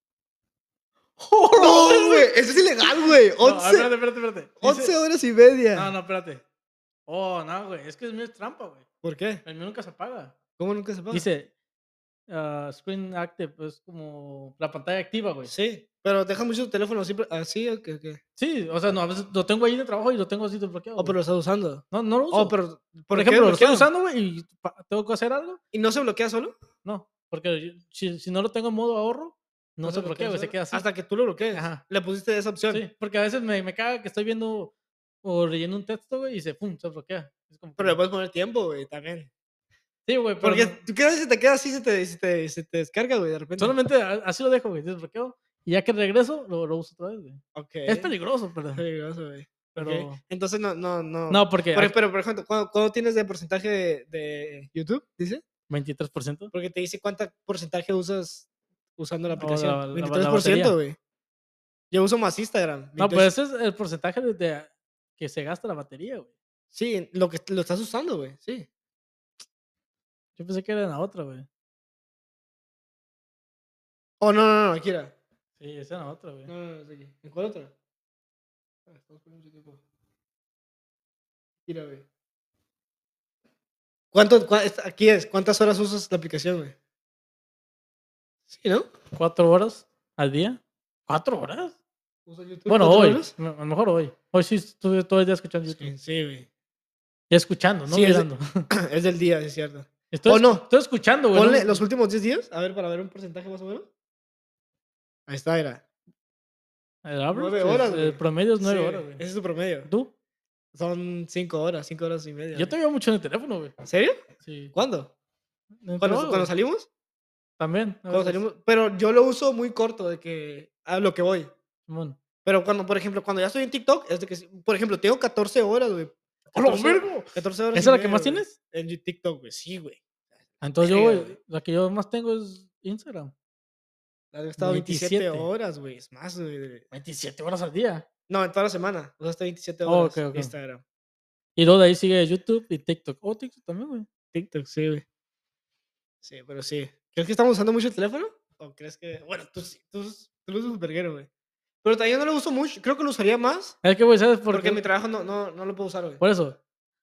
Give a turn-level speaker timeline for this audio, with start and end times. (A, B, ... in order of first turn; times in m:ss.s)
0:01.2-0:02.3 A
0:01.5-0:03.9 B
0:02.8-0:04.9 A
0:04.6-0:05.9 B
0:05.7-0:06.4 A
0:07.1-0:08.8 A
0:09.0-0:09.4 B
0:09.4-0:10.4 A
0:10.6-0:11.3 B
0:11.1-0:11.5 A
0:12.3-0:15.5 A
0:15.4-0:18.2 B
0:18.4-0:21.2 A
0:21.0-0:23.9 B
0:21.9-0:22.5 A
0:23.1-0:25.6 A
0:25.7-0:26.5 B
0:26.8-0:30.8 A
0:29.8-0:32.8 B
0:31.5-0:31.8 A
0:32.7-0:38.0 A
0:37.8-0:39.3 B
0:40.1-0:40.8 A
0:40.4-0:43.8 B
0:43.6-0:48.8 A
0:47.5-0:48.1 B
0:48.7-0:55.4 B
0:49.7-0:50.2 A
0:51.3-0:52.0 A
0:55.7-0:56.5 A
0:56.5-1:01.0 B
0:59.3-1:00.8 A
1:01.9-1:03.3 B
1:03.0-1:06.3 A
1:06.7-1:08.7 B
1:10.4-1:11.5 A
1:14.2-1:15.1 B
1:15.6-1:16.5 A
1:16.5-1:17.7 B
1:18.9-1:19.8 B
1:21.6-1:22.0 B
1:24.1-1:26.7 B
1:28.5-1:28.9 B
1:29.1-1:31.8 A
1:32.2-1:33.3 B
1:32.7-1:35.9 A
1:35.7-1:36.5 B
1:37.3-1:38.7 A
1:37.9-1:40.6 B
1:40.1-1:41.8 A
1:41.3-1:43.9 B
1:45.3-1:45.8 B
1:47.0-1:49.2 A
1:47.3-1:49.9 B
1:49.8-1:50.1 A
1:50.7-1:52.7 B
1:52.5-1:53.7 A
1:53.8-1:54.2 B
1:54.4-1:54.7 A
1:54.7-1:55.1 B
1:55.8-1:56.5 A
1:56.0-1:56.9 B
1:57.6-1:58.4 A
1:58.1-2:01.5 B
2:01.9-2:02.2 A
2:02.4-2:10.0 B
2:06.5-2:08.5 A
2:10.6-2:11.4 B
2:10.6-2:13.3 A
2:14.3-2:16.8 B
2:14.6-2:15.5 A
2:16.9-2:18.0 A
2:18.3-2:20.8 B
2:19.8-2:20.5 A
2:21.6-2:24.1 A
2:24.3-2:25.0 B
2:26.2-2:31.3 B
2:31.8-2:33.8 B
2:33.8-2:34.8 A
2:34.5-2:36.2 B
2:36.2-2:36.6 A